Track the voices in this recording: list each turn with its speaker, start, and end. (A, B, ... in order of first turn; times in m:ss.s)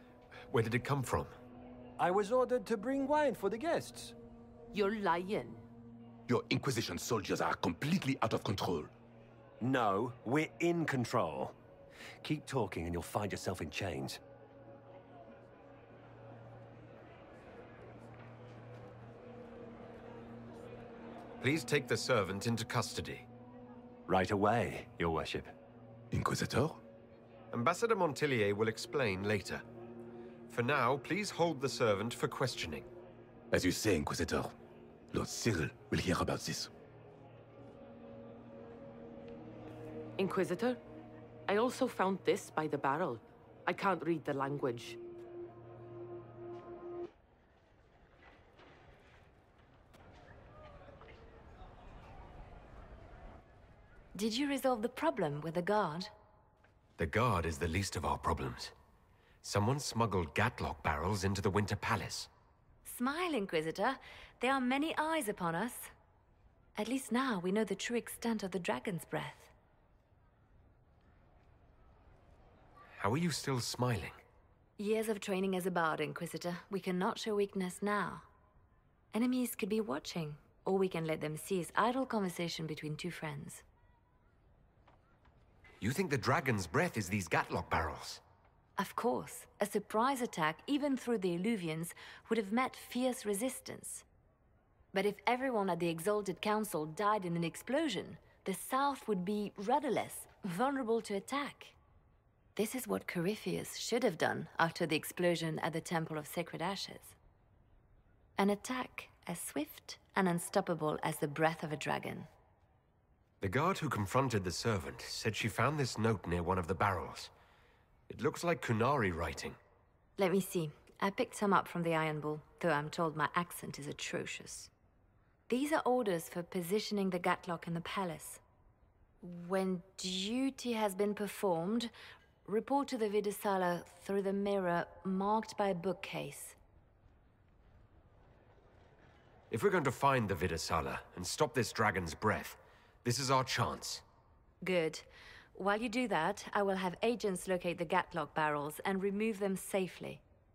0:00.5-0:01.3 A
0:02.0-0:04.2 B
0:04.7-0:05.6 C
0:06.3-0:08.9 D
0:09.6-0:11.5 B
0:12.2-0:14.2 B
0:21.4-0:23.3 A
0:24.1-0:25.5 B
0:26.1-0:26.8 D
0:27.5-0:29.6 A
0:30.5-0:32.9 A
0:33.5-0:34.5 D
0:35.1-0:36.7 D
0:40.2-0:40.8 C
0:41.5-0:45.0 C
0:54.1-0:56.1 E
0:57.0-0:58.7 A
0:59.4-1:02.3 A
1:02.8-1:05.9 E
1:06.8-1:09.5 E
1:13.0-1:14.2 A
1:14.8-1:18.2 E
1:19.1-1:23.6 E
1:25.8-1:28.2 A
1:28.8-1:34.0 E
1:34.9-1:41.8 E
1:42.6-1:47.2 E
1:48.4-1:52.3 E
1:53.4-1:57.3 A
1:58.1-1:59.6 A
2:00.2-2:04.7 E
2:05.5-2:08.4 E
2:09.2-2:11.9 E
2:12.4-2:16.6 E
2:19.5-2:24.0 A
2:24.6-2:30.2 E